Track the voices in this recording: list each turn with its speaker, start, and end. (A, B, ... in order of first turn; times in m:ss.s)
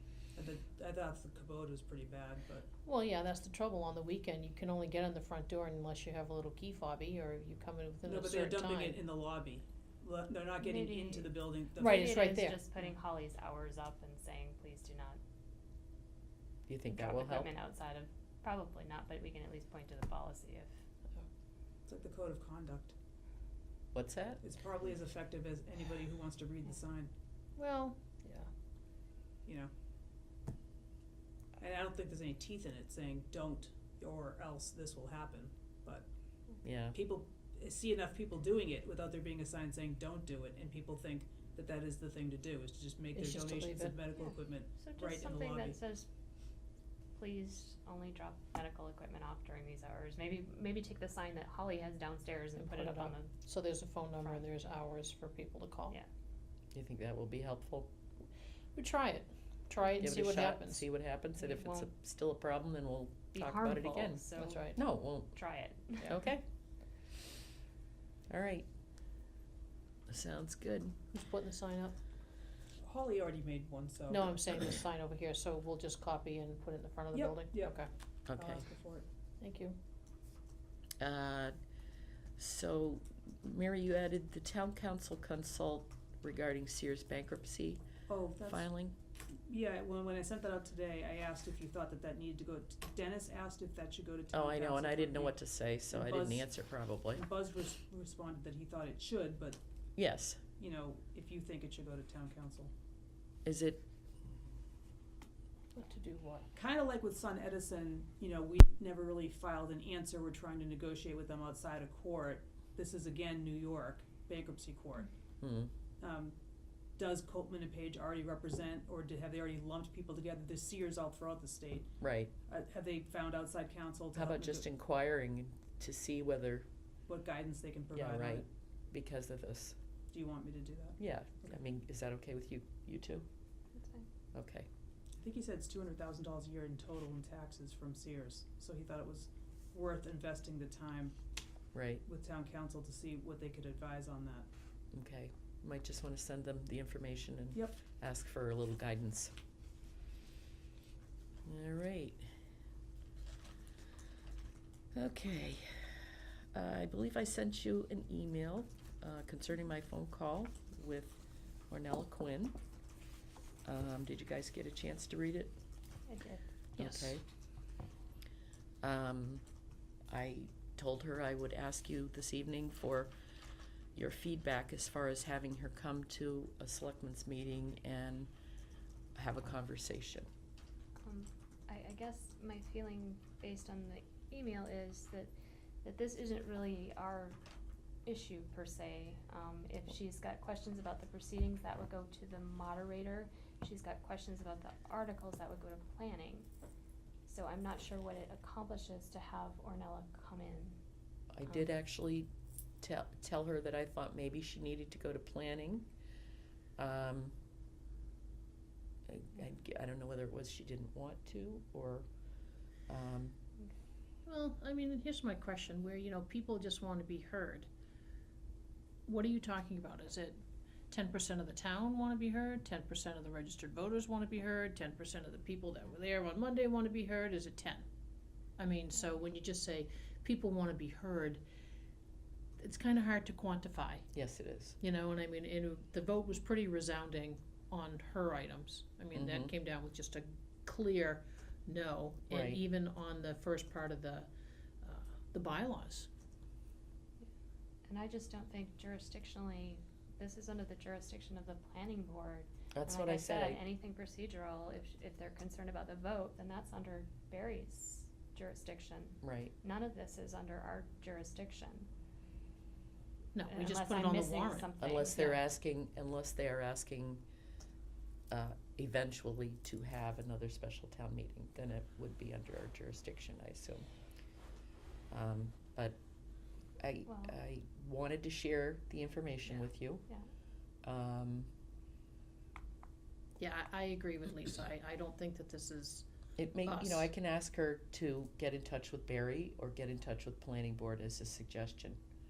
0:00.4-0:02.7 A
0:02.8-0:09.0 B
0:08.0-0:12.2 A
0:10.6-0:15.2 C
0:11.8-0:12.6 B
0:16.7-0:17.5 D
0:16.9-0:20.7 C
0:21.9-0:23.0 A
0:23.9-0:24.4 D
0:24.4-0:27.1 A
0:27.6-0:28.5 B
0:31.6-0:36.1 A
0:36.6-0:37.0 D
0:36.9-0:45.8 A
0:43.2-0:44.0 B
0:44.2-0:46.1 C
0:47.2-0:53.3 C
0:52.6-0:56.0 B
0:54.2-0:54.4 C
0:56.7-0:57.9 D
0:58.8-1:00.8 B
1:00.0-1:05.4 D
1:01.4-1:01.9 C
1:03.3-1:06.1 C
1:04.4-1:04.8 B
1:05.9-1:06.4 D
1:08.3-1:08.7 D
1:10.1-1:11.0 D
1:11.1-1:12.0 B
1:12.8-1:14.4 A
1:14.1-1:17.9 B
1:17.1-1:17.8 A
1:18.3-1:18.6 D
1:18.4-1:19.1 A
1:19.4-1:19.8 B
1:21.0-1:21.6 D
1:22.4-1:27.8 D
1:28.1-1:28.7 A
1:28.4-1:29.0 D
1:29.5-1:36.5 A
1:34.3-1:37.2 D
1:37.1-1:39.6 A
1:40.0-1:40.4 D
1:40.6-1:42.7 A
1:43.4-1:43.8 D
1:45.8-1:46.5 B
1:46.5-1:55.1 A
1:55.4-1:55.7 D
1:56.0-1:56.4 A
1:57.0-2:01.9 A
2:02.0-2:02.3 D
2:02.5-2:04.7 A
2:04.1-2:06.7 D
2:07.1-2:08.5 A
2:07.9-2:09.8 D
2:10.1-2:11.5 A
2:11.0-2:13.3 D
2:13.8-2:14.1 C
2:14.3-2:14.7 D
2:15.2-2:21.2 A
2:21.7-2:22.0 D
2:22.0-2:24.5 A
2:24.9-2:29.3 D
2:27.5-2:27.8 A
2:31.4-2:32.2 D
2:34.9-2:36.0 D
2:36.5-2:41.2 D
2:41.7-2:42.6 D
2:43.6-2:45.5 D
2:46.1-2:46.4 C
2:46.8-2:47.2 B
2:46.8-2:47.2 D
2:48.8-2:49.4 D
2:50.1-2:53.1 D
2:54.0-2:58.3 D
2:59.2-3:00.3 D
3:01.0-3:07.4 C
3:08.1-3:16.5 C
3:17.3-3:20.8 C
3:21.3-3:22.3 D
3:22.8-3:25.9 D
3:26.8-3:27.4 D
3:29.1-3:32.1 D
3:32.9-3:33.4 D
3:34.3-3:37.7 B
3:39.1-3:40.4 B
3:40.9-3:47.8 B
3:48.6-3:51.4 B
3:52.6-3:54.1 B
3:54.1-3:54.8 D
3:54.8-4:04.3 B
3:59.1-3:59.5 D
4:02.3-4:02.6 D
4:04.8-4:06.1 B
4:07.9-4:21.9 C
4:12.7-4:13.6 D
4:19.2-4:19.5 D
4:23.3-4:24.7 B
4:23.5-4:25.4 C
4:24.8-4:27.2 D
4:28.3-4:33.9 D
4:35.1-4:36.0 D
4:36.8-4:40.1 D
4:37.1-4:37.4 C
4:39.5-4:40.3 C
4:40.8-4:41.5 D
4:43.4-4:46.0 B
4:46.4-4:52.0 D
4:46.6-4:47.1 B